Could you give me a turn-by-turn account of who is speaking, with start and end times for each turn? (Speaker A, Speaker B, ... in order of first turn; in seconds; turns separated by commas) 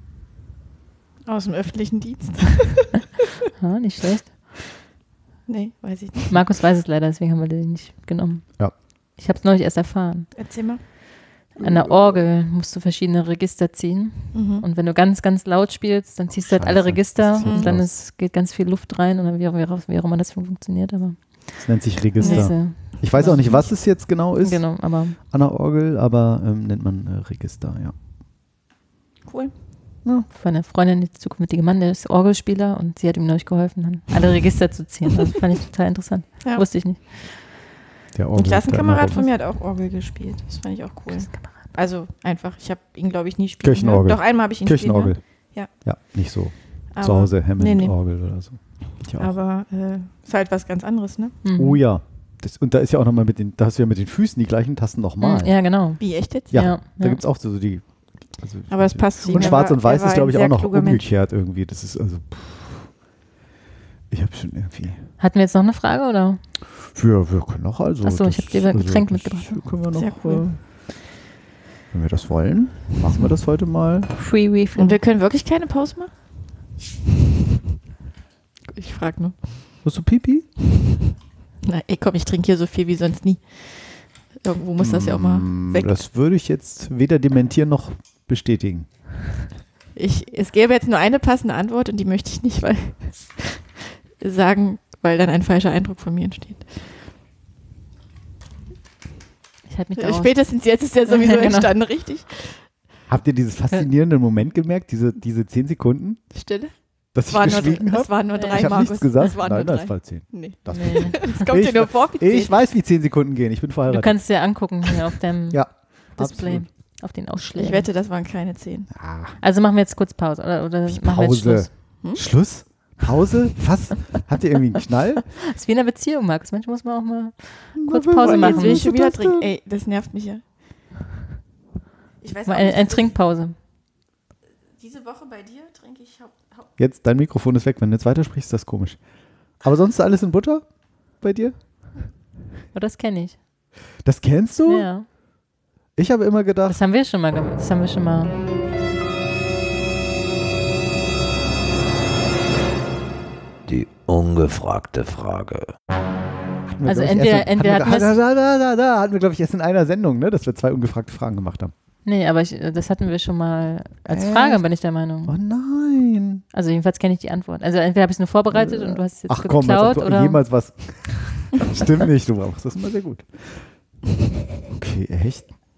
Speaker A: 1.2-3.1, Speaker B: 3.6-4.5, Speaker A: 5.5-6.4, Speaker B: 6.3-8.6, Speaker B: 9.2-10.3, Speaker A: 10.3-10.8, Speaker C: 11.6-12.1, Speaker B: 11.6-21.6, Speaker A: 14.3-14.6, Speaker C: 16.3-17.9, Speaker A: 17.4-17.7, Speaker C: 21.6-27.9, Speaker B: 22.2-23.8, Speaker A: 22.2-23.0, Speaker B: 24.4-25.2, Speaker A: 29.2-29.5, Speaker B: 30.3-37.4, Speaker C: 38.1-39.2, Speaker A: 38.4-45.7, Speaker B: 41.3-41.5, Speaker C: 43.6-45.2, Speaker C: 45.8-49.3, Speaker A: 46.9-47.9, Speaker A: 49.2-51.4, Speaker B: 51.4-51.8, Speaker C: 51.5-55.5, Speaker B: 55.2-57.2, Speaker A: 56.0-56.6, Speaker C: 56.5-57.8, Speaker C: 58.4-62.9, Speaker A: 58.7-61.1, Speaker B: 59.3-59.6, Speaker C: 64.1-65.0, Speaker B: 65.2-66.4, Speaker C: 66.8-70.6, Speaker B: 68.0-69.6, Speaker A: 69.9-70.4, Speaker C: 71.9-74.1, Speaker B: 74.1-75.0, Speaker A: 74.8-76.1, Speaker A: 78.7-79.3, Speaker C: 79.8-80.5, Speaker A: 81.6-86.0, Speaker C: 84.8-88.9, Speaker A: 89.9-96.9, Speaker B: 99.7-100.4, Speaker A: 100.0-102.6, Speaker B: 101.1-101.7, Speaker C: 103.1-106.2, Speaker A: 106.3-106.7, Speaker C: 107.1-114.2, Speaker A: 107.3-112.6, Speaker B: 108.3-108.6, Speaker B: 110.7-111.4, Speaker B: 113.9-115.6, Speaker C: 115.5-116.7, Speaker B: 116.2-117.9, Speaker A: 117.5-118.9, Speaker C: 118.9-119.4, Speaker B: 119.4-121.7, Speaker C: 120.9-125.3, Speaker B: 125.5-128.8, Speaker C: 127.7-129.5, Speaker A: 128.2-130.4, Speaker A: 132.2-133.1, Speaker B: 132.4-133.5, Speaker A: 134.8-136.7, Speaker C: 136.8-139.0, Speaker C: 139.6-140.7, Speaker C: 141.2-141.6, Speaker B: 142.7-143.4, Speaker C: 144.0-144.9, Speaker B: 144.7-145.1, Speaker C: 145.9-146.8, Speaker B: 146.7-148.3, Speaker D: 153.7-155.7, Speaker C: 156.7-161.7, Speaker B: 156.8-158.1, Speaker B: 162.0-165.3, Speaker C: 164.1-164.6, Speaker C: 165.2-166.4, Speaker B: 166.5-170.4, Speaker C: 168.5-173.6, Speaker C: 174.7-175.5